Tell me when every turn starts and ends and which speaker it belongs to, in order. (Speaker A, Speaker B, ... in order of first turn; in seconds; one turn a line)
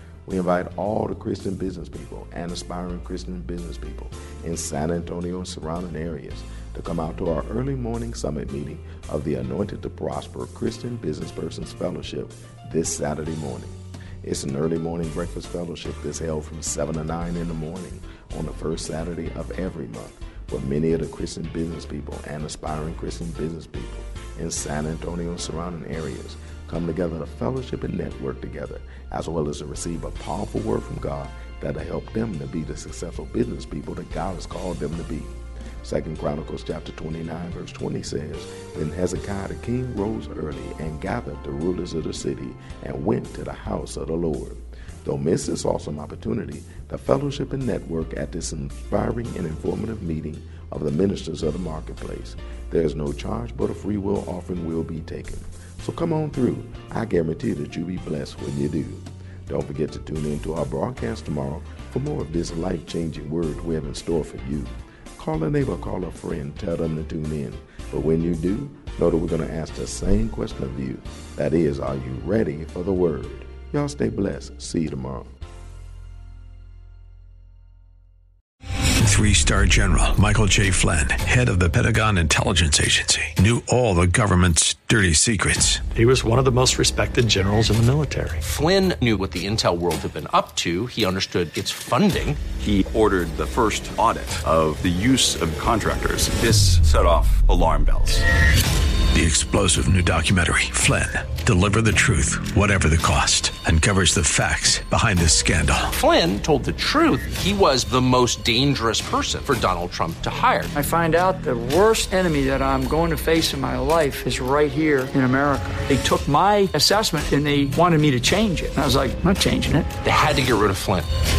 Speaker A: 0.2-75.3
Speaker B: 79.0-86.0
Speaker C: 86.1-88.4
Speaker D: 88.4-92.4
Speaker E: 92.5-98.2
Speaker B: 99.1-105.9
Speaker D: 105.9-110.7
Speaker F: 110.7-119.9
Speaker D: 120.0-121.1